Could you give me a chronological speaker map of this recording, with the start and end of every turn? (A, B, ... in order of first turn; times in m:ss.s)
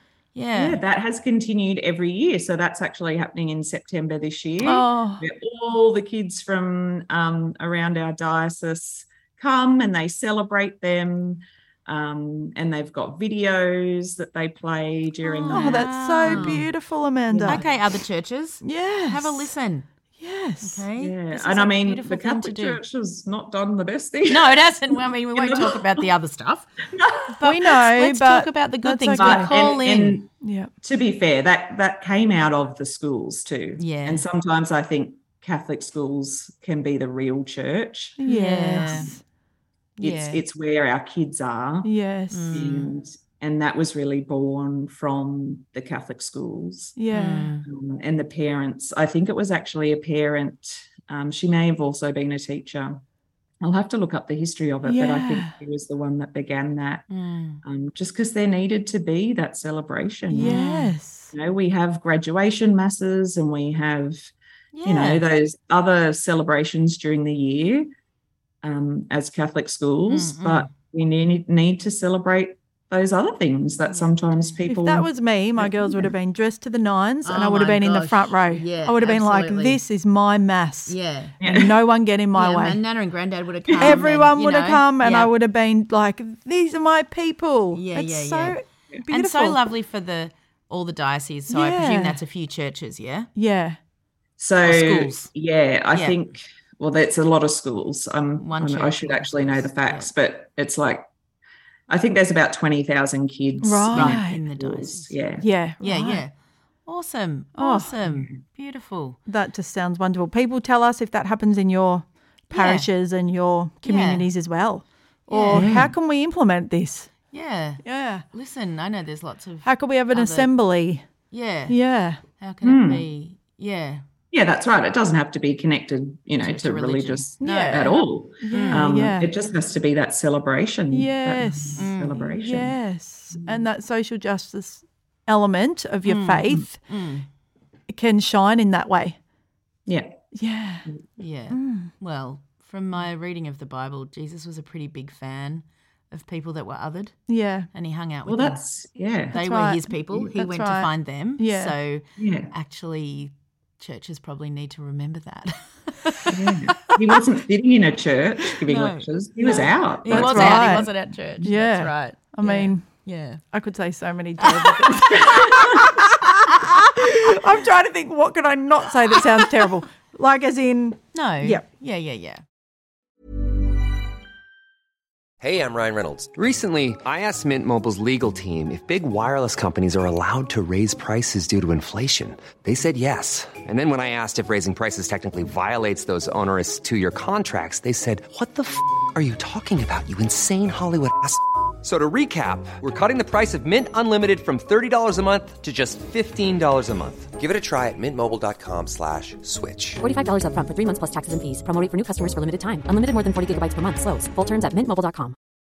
0:00.3-0:00.8 A
0:00.5-0:16.6 B
0:04.6-0:05.2 C
0:15.2-0:16.7 A
0:15.5-0:17.6 C
0:17.3-0:17.8 B
0:17.4-0:19.9 A
0:18.6-0:19.5 C
0:20.2-0:20.8 C
0:20.6-0:22.8 A
0:21.0-0:26.1 B
0:24.3-0:26.7 A
0:26.9-0:27.4 B
0:27.3-0:30.2 A
0:27.4-0:29.5 C
0:29.1-0:30.3 B
0:30.4-0:30.7 C
0:30.8-0:38.2 B
0:33.8-0:34.2 A
0:38.2-0:39.2 C
0:38.2-0:39.1 A
0:38.8-0:39.1 B
0:40.0-0:40.4 A
0:40.0-0:41.9 B
0:41.8-0:42.6 C
0:42.3-0:42.9 A
0:42.5-0:47.0 B
0:47.0-0:47.5 C
0:47.1-0:47.6 A
0:47.6-0:53.0 B
0:53.6-0:57.0 B
0:54.8-0:55.5 C
0:57.1-0:57.6 A
0:57.6-1:00.6 B
1:00.3-1:01.3 C
1:00.4-1:00.9 A
1:01.3-1:04.3 B
1:04.7-1:05.2 A
1:04.8-1:07.9 B
1:08.6-1:16.1 B
1:10.1-1:10.7 A
1:13.9-1:14.6 A
1:14.7-1:22.8 C
1:17.2-1:19.8 A
1:20.9-1:21.3 A
1:21.4-1:21.8 B
1:22.4-1:25.3 A
1:23.7-1:24.0 B
1:23.8-1:29.6 C
1:27.7-1:33.3 A
1:31.5-1:32.2 C
1:33.4-1:33.8 C
1:34.4-1:41.0 B
1:34.6-1:35.3 A
1:38.4-1:40.1 A
1:41.9-1:45.4 B
1:43.6-1:44.4 C
1:43.9-1:45.2 A
1:45.4-1:46.2 C
1:45.8-1:46.3 A
1:46.8-1:49.2 A
1:47.6-1:47.9 C
1:48.0-1:48.4 B
1:49.3-1:57.1 C
1:52.5-1:52.9 A
1:53.8-1:54.3 A
1:55.3-1:55.7 A
1:55.5-1:55.9 B
1:57.3-2:00.5 A
1:57.8-1:58.2 C
1:59.6-2:01.0 C
2:01.3-2:01.8 A
2:01.7-2:02.2 C
2:02.4-2:04.0 A
2:02.6-2:03.0 B
2:04.3-2:12.8 B
2:06.4-2:08.9 A
2:07.4-2:09.3 C
2:10.9-2:16.8 C
2:11.8-2:12.4 A
2:13.4-2:13.6 B
2:16.0-2:17.3 A
2:17.9-2:19.2 C
2:19.9-2:20.2 B
2:20.3-2:20.9 C
2:21.2-2:28.6 A
2:21.5-2:21.9 C
2:27.3-2:27.7 C
2:28.2-2:29.3 B
2:29.3-2:31.8 C
2:29.3-2:36.9 A
2:32.2-2:32.5 B
2:36.3-2:41.5 B
2:38.6-2:43.4 A
2:40.0-2:40.9 C
2:41.4-2:46.2 C
2:44.4-2:45.6 A
2:44.9-2:45.8 B
2:47.0-2:51.6 C
2:51.1-2:52.4 A
2:55.4-3:20.0 D
3:20.0-3:25.3 E